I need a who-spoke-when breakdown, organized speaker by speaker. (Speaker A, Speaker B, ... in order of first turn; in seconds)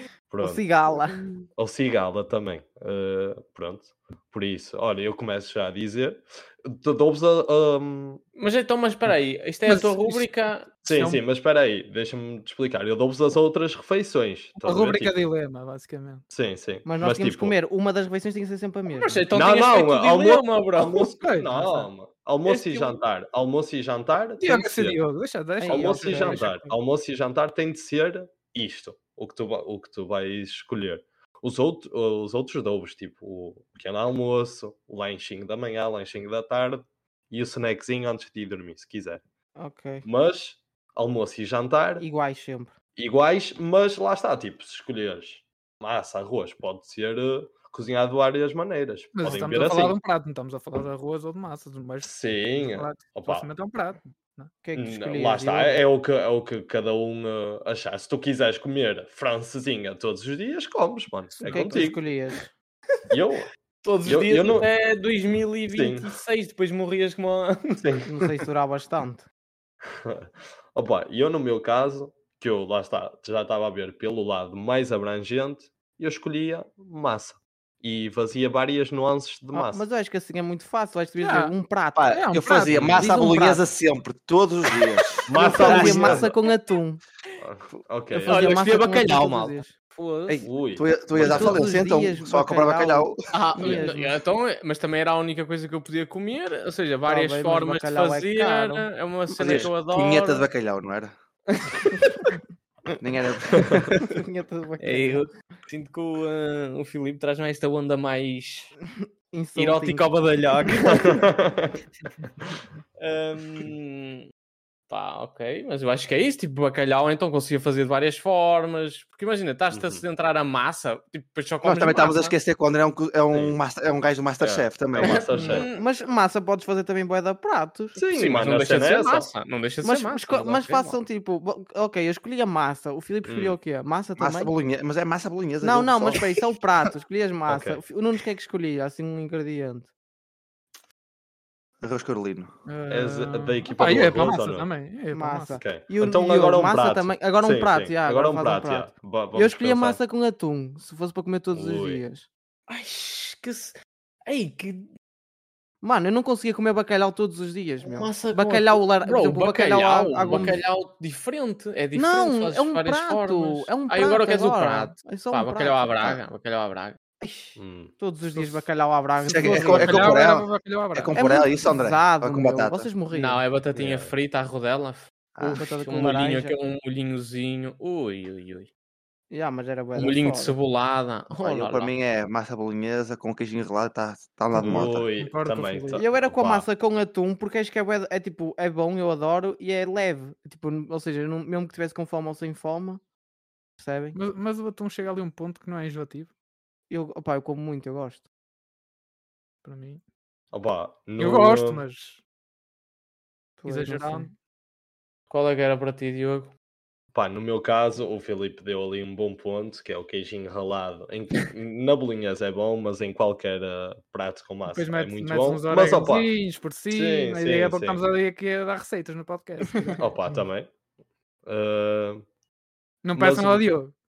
Speaker A: 0.3-0.6, 1.6-8.2, 10.8-15.1, 16.3-17.6, 19.3-25.1, 25.6-39.2, 40.0-42.0, 43.0-50.0, 52.0-53.5, 54.7-62.0, 63.1-63.5, 64.0-64.7, 65.7-66.1, 67.8-68.1, 70.0-79.8, 82.7-83.0, 85.2-86.3, 87.4-88.5, 90.4-91.7, 110.8-111.8, 119.7-120.0, 123.3-123.6, 124.4-125.7, 127.9-129.3, 133.2-133.6, 137.5-137.8, 142.9-144.7, 145.6-150.0, 151.5-152.0, 167.6-167.9, 173.7-174.1, 184.6-186.7, 200.5-201.8, 207.1-218.0, 220.0-220.7, 221.4-222.2, 223.1-223.7
Speaker B: 0.4-1.2, 16.8-19.2, 25.6-26.4, 39.6-40.0, 42.0-42.7, 54.6-55.8, 61.4-62.5, 68.0-69.2, 79.5-83.7, 85.4-87.0, 88.1-89.7, 91.2-94.2, 97.0-99.4, 101.9-102.4, 104.0-105.2, 109.3-110.1, 110.6-111.1, 125.3-128.0, 129.8-134.5, 135.6-139.9, 145.1-152.3, 155.8-160.6, 161.9-166.2, 167.2-170.1, 171.2-173.4, 175.4-176.6, 179.3-180.5, 185.9-193.0, 193.8-194.2, 196.9-198.2, 203.6-204.3
Speaker C: 1.1-1.4, 8.4-10.7, 18.9-21.1, 22.4-22.9, 63.8-67.8, 88.2-90.4, 93.3-100.5, 104.8-108.7, 109.5-111.2, 113.0-114.2, 114.9-122.3, 125.0-125.8, 128.1-130.9, 152.7-154.9, 157.8-167.0, 173.1-178.7, 179.9-181.9, 205.3-206.5
Speaker D: 9.7-10.3, 10.8-11.2, 14.6-16.2, 21.1-21.9, 24.4-26.7, 49.1-54.6, 81.2-81.5, 82.1-82.8, 142.6-145.6, 168.3-168.7, 169.2-171.2, 184.6-186.1, 194.1-196.3, 199.6-200.0, 201.2-202.2, 203.7-204.3, 214.7-220.0, 223.0-223.9
Speaker E: 82.0-86.3, 90.3-93.8, 99.4-101.1, 103.0-104.0, 121.6-125.3, 134.2-136.2, 141.8-142.5, 169.3-172.9, 181.4-185.1